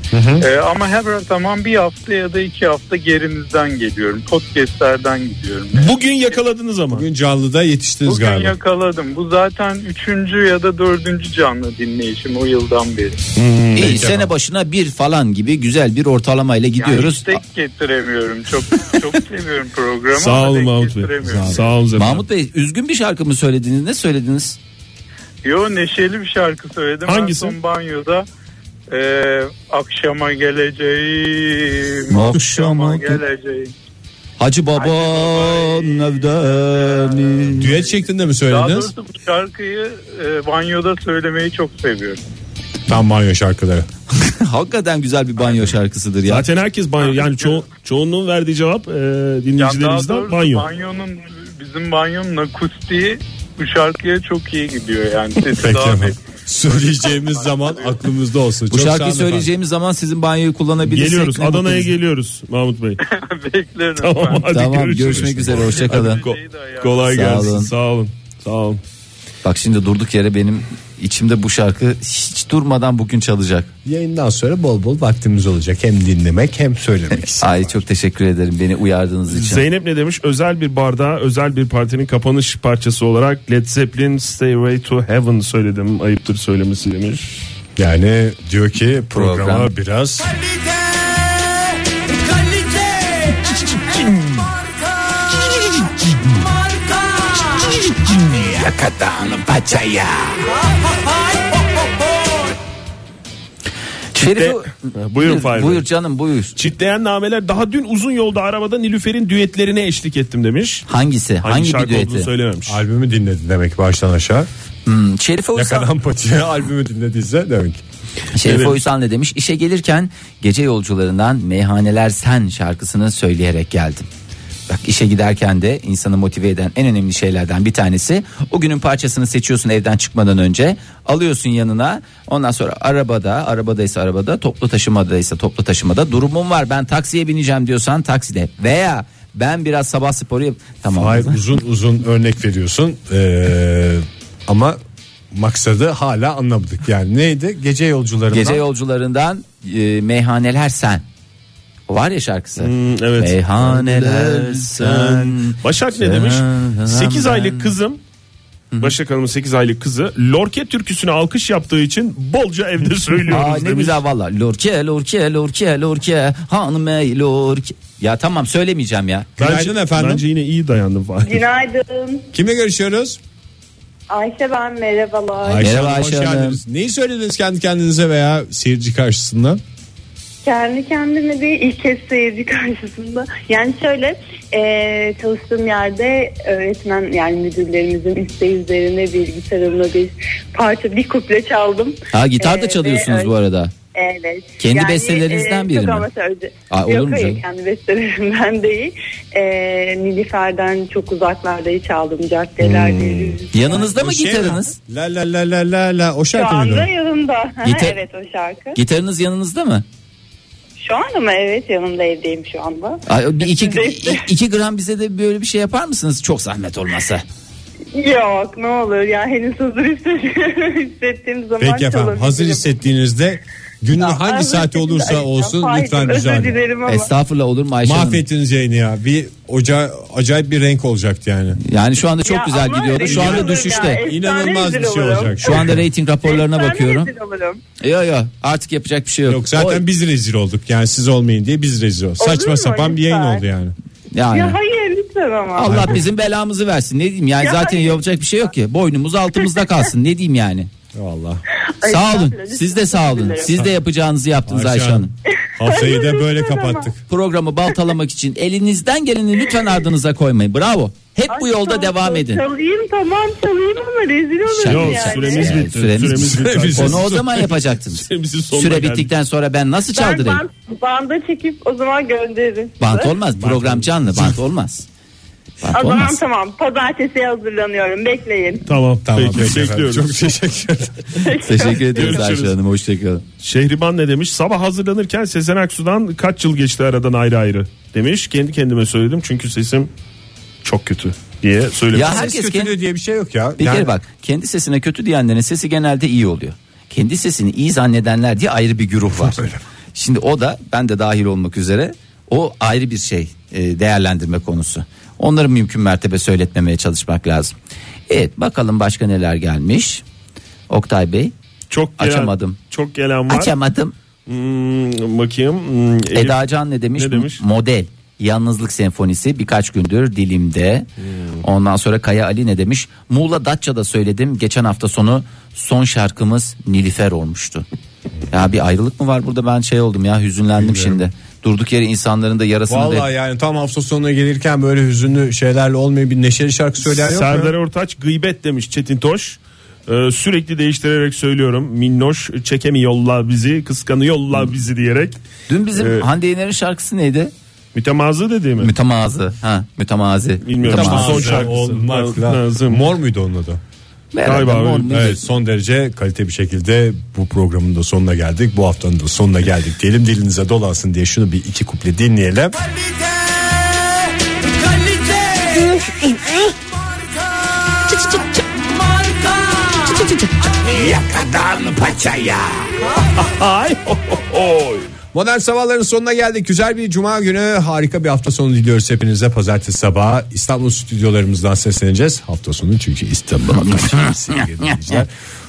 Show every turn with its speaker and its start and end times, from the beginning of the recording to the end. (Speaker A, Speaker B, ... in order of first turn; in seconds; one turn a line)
Speaker A: 0.1-0.5
Speaker B: 0.4-6.0
Speaker C: 5.7-7.0
Speaker A: 6.9-8.5
Speaker B: 8.1-13.2
Speaker C: 13.3-14.0
Speaker D: 13.7-17.4
Speaker A: 13.8-14.3
Speaker B: 16.8-21.8
Speaker C: 20.1-22.2
Speaker D: 21.9-24.6
Speaker B: 25.4-28.2
Speaker C: 27.1-27.6
Speaker B: 28.9-33.7
Speaker D: 32.1-33.2
Speaker D: 34.4-37.7
Speaker B: 34.8-36.0
Speaker B: 36.6-37.4
Speaker A: 37.5-38.9
Speaker B: 38.5-42.2
Speaker A: 42.9-43.9
Speaker D: 44.2-46.4
Speaker C: 46.3-50.7
Speaker B: 49.6-58.0
Speaker A: 55.6-59.5
Speaker D: 58.7-61.9
Speaker C: 60.8-63.0
Speaker B: 63.0-64.5
Speaker C: 64.0-68.8
Speaker D: 64.5-66.2
Speaker A: 65.0-65.5
Speaker B: 65.5-67.3
Speaker D: 67.0-67.7
Speaker D: 69.4-73.7
Speaker A: 73.8-77.8
Speaker D: 77.1-79.6
Speaker C: 79.3-87.4
Speaker A: 87.8-90.3
Speaker D: 89.1-89.7
Speaker C: 93.8-94.4
Speaker D: 98.5-100.4
Speaker D: 104.1-106.6
Speaker C: 104.2-105.8
Speaker C: 106.5-110.8
Speaker D: 110.9-112.3
Speaker C: 111.4-112.8
Speaker A: 112.7-114.5
Speaker D: 114.8-115.9
Speaker A: 115.5-117.8
Speaker D: 118.3-124.1
Speaker C: 118.4-118.8
Speaker D: 124.7-141.4
Speaker A: 140.9-144.8
Speaker A: 145.3-148.6
Speaker D: 148.3-151.0
Speaker D: 151.9-157.7
Speaker C: 152.6-158.0
Speaker C: 158.8-164.0
Speaker D: 163.3-169.3
Speaker C: 169.4-171.4
Speaker A: 169.4-170.2
Speaker E: 171.2-172.2
Speaker A: 172.3-173.2
Speaker E: 174.1-175.7
Speaker A: 175.4-179.6
Speaker D: 175.5-176.6
Speaker E: 180.4-193.3
Speaker D: 192.1-193.7
Speaker E: 193.9-203.9
Speaker D: 194.6-196.1
Speaker D: 196.7-197.4
Speaker A: 202.6-203.4
Speaker D: 203.5-204.7
Speaker A: 203.9-206.9
Speaker E: 206.3-208.8
Speaker D: 207.6-208.0
Speaker D: 208.7-209.8
Speaker E: 210.8-214.2
Speaker D: 213.1-217.2
Speaker E: 217.9-222.7
Speaker A: 221.6-226.6
Speaker E: 223.9-227.1
Speaker D: 226.8-228.2
Speaker A: 227.8-231.6
Speaker D: 231.6-234.0
Speaker E: 232.2-237.6
Speaker A: 233.0-235.8
Speaker D: 235.4-237.1
Speaker D: 237.8-239.8
Speaker A: 239.3-243.7
Speaker E: 242.2-243.4
Speaker D: 244.1-244.6
Speaker E: 244.3-246.0
Speaker D: 245.6-250.7
Speaker A: 245.7-246.0
Speaker E: 247.4-248.0
Speaker A: 250.9-251.4
Speaker E: 251.8-253.6
Speaker D: 251.8-255.1
Speaker A: 254.4-257.0
Speaker E: 255.6-256.9
Speaker D: 257.1-262.4
Speaker E: 261.3-265.5
Speaker D: 264.5-270.4
Speaker C: 264.6-267.4
Speaker A: 266.1-267.5
Speaker C: 267.9-269.1
Speaker E: 269.9-273.1
Speaker D: 272.8-274.9
Speaker A: 273.4-274.4
Speaker D: 275.6-276.2
Speaker E: 275.7-278.6
Speaker C: 278.6-280.1
Speaker A: 279.0-281.2
Speaker E: 281.2-282.2
Speaker D: 281.2-283.2
Speaker C: 281.9-282.6
Speaker C: 283.4-289.9
Speaker C: 290.6-292.2
Speaker D: 291.9-292.8
Speaker A: 292.0-293.9
Speaker D: 293.6-307.5
Speaker A: 299.1-299.6
Speaker D: 308.1-310.0
Speaker D: 310.7-311.3
Speaker C: 311.7-313.5
Speaker D: 312.0-312.6
Speaker D: 313.3-313.9
Speaker C: 314.3-316.4
Speaker D: 316.1-320.9
Speaker C: 317.0-317.4
Speaker D: 321.4-327.6
Speaker D: 328.3-333.1
Speaker A: 330.6-331.0
Speaker A: 332.7-337.5
Speaker C: 336.8-345.2
Speaker D: 345.5-347.3
Speaker C: 345.7-346.1
Speaker C: 347.7-348.7
Speaker D: 348.6-351.5
Speaker C: 350.4-352.8
Speaker A: 350.6-353.6
Speaker D: 354.1-355.2
Speaker C: 354.2-354.9
Speaker A: 354.9-362.6
Speaker A: 370.7-372.7
Speaker C: 370.8-371.9
Speaker C: 373.1-374.9
Speaker A: 375.1-385.1
Speaker D: 383.5-384.9